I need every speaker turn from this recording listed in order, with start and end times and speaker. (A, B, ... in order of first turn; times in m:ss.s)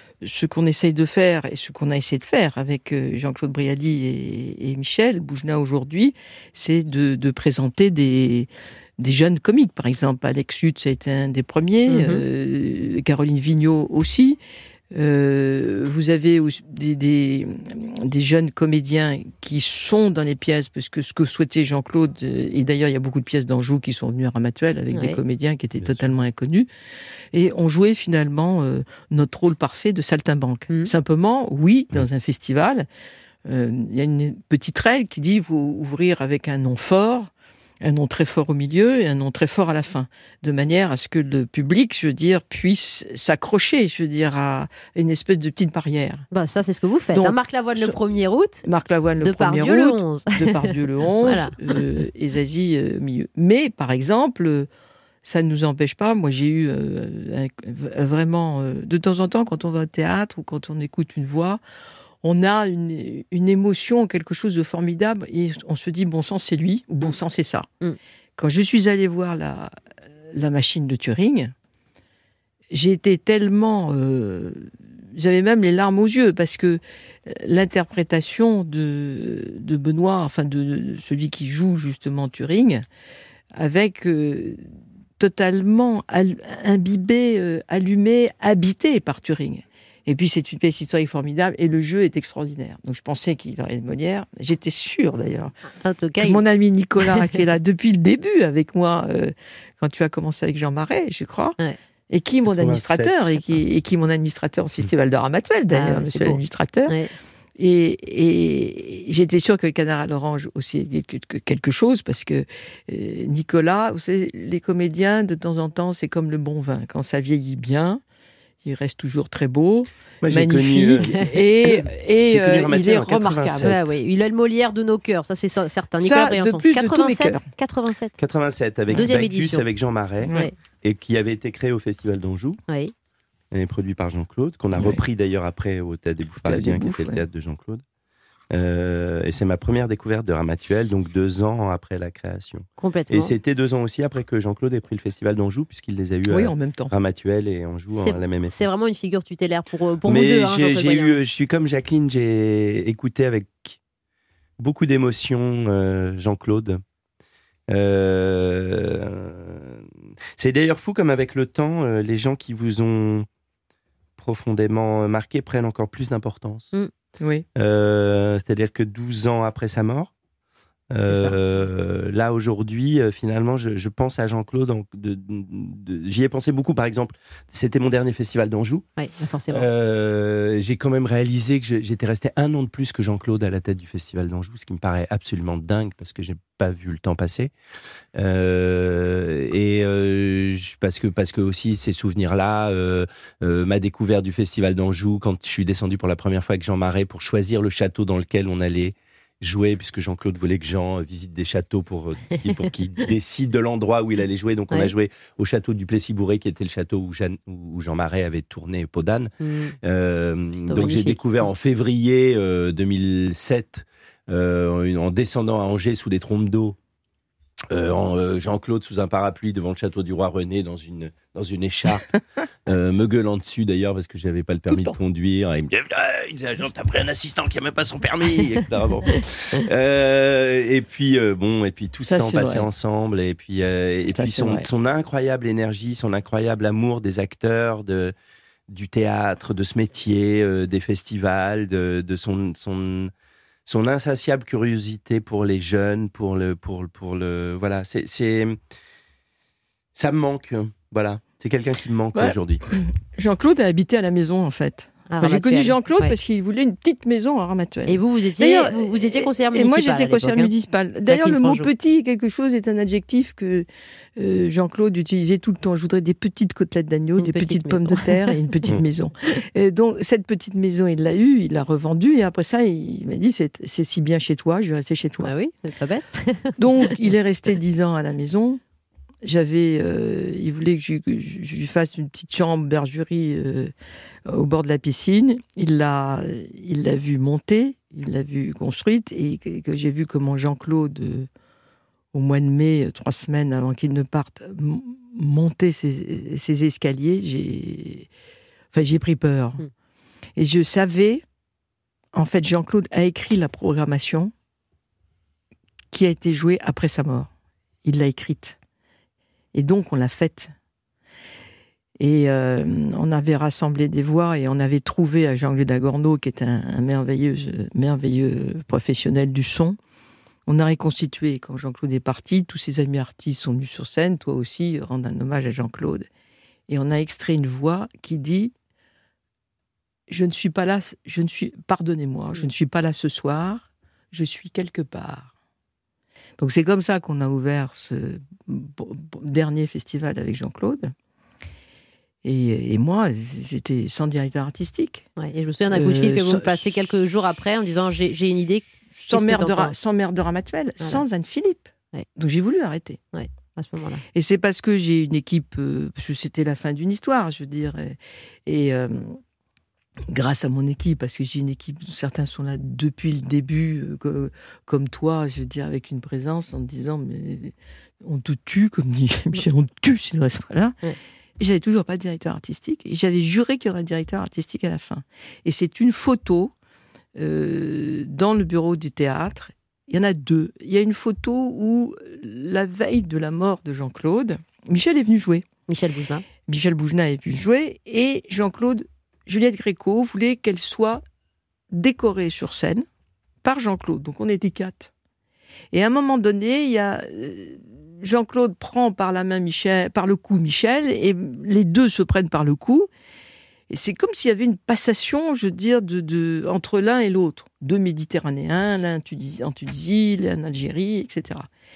0:00.2-0:14.4 A
0:11.9-0:12.2 B
0:14.9-0:26.7 A
0:24.9-0:25.2 B
0:25.8-0:26.2 C
0:27.3-0:32.9 A
0:33.5-0:37.3 A
0:37.8-0:46.2 A
0:46.3-0:48.7 B
0:47.1-0:48.0 A
0:48.6-0:54.7 A
0:49.2-0:50.7 B
0:51.2-0:51.7 B
0:55.2-1:01.6 A
1:02.2-1:07.7 A
1:08.4-1:09.8 A
1:10.3-1:11.5 A
1:12.7-1:22.8 A
1:23.6-1:24.6 A
1:25.2-1:35.5 A
1:35.7-1:36.4 B
1:36.2-1:41.6 A
1:42.1-1:47.0 A
1:42.5-1:43.5 C
1:45.7-1:47.1 B
1:47.6-1:58.0 A
1:58.6-2:03.8 A
2:00.2-2:04.0 C
2:03.6-2:08.2 B
2:06.0-2:07.5 A
2:08.2-2:12.6 C
2:08.9-2:09.7 B
2:10.2-2:10.5 A
2:10.3-2:10.5 B
2:12.7-2:12.9 B
2:13.5-2:17.8 C
2:14.8-2:15.0 A
2:16.4-2:17.2 A
2:18.5-2:28.7 C
2:22.8-2:23.3 B
2:26.3-2:26.9 A
2:27.9-2:31.2 B
2:30.0-2:33.8 C
2:34.6-2:36.8 C
2:37.7-2:43.3 C
2:44.2-2:46.7 C
2:47.2-2:47.5 A
2:47.6-2:50.1 C
2:50.9-2:58.8 C
2:51.1-2:51.4 B
2:59.0-2:59.7 B
2:59.5-3:07.5 C
3:08.2-3:36.8 C
3:29.4-3:29.8 B
3:30.6-3:31.5 B
3:37.7-3:42.1 C
3:42.7-3:58.1 C
3:44.7-3:45.0 A
3:52.1-3:52.7 A
3:54.1-3:54.6 A
3:58.7-4:03.1 C
4:03.7-4:08.6 C
4:10.0-4:12.6 C
4:12.2-4:35.4 A
4:15.1-4:16.2 B
4:17.9-4:20.5 B
4:21.1-4:21.7 B
4:27.2-4:28.4 B
4:35.2-4:37.1 B
4:36.6-4:38.6 A
4:39.2-4:43.7 A
4:44.3-4:51.3 A
4:52.1-4:58.1 A
4:58.7-4:59.6 A
5:00.4-5:01.2 A
5:02.2-5:04.3 A
5:05.9-5:07.3 A
5:07.8-5:08.6 A
5:09.5-5:10.5 A
5:12.0-5:19.8 A
5:20.5-5:26.1 A
5:26.7-5:28.5 A
5:30.1-5:35.3 A
5:36.4-5:40.9 A
5:42.2-5:45.1 A
5:45.2-5:49.7 B
5:45.7-5:47.0 A
5:48.9-5:53.0 A
5:53.1-5:54.0 B
5:54.2-5:59.2 A
6:00.1-6:10.8 A
6:11.4-6:16.5 A
6:17.2-6:25.4 A
6:25.7-6:26.2 B
6:26.5-6:31.0 A
6:31.7-6:32.9 A
6:33.4-6:34.9 A
6:35.7-6:42.9 A
6:43.7-6:51.5 A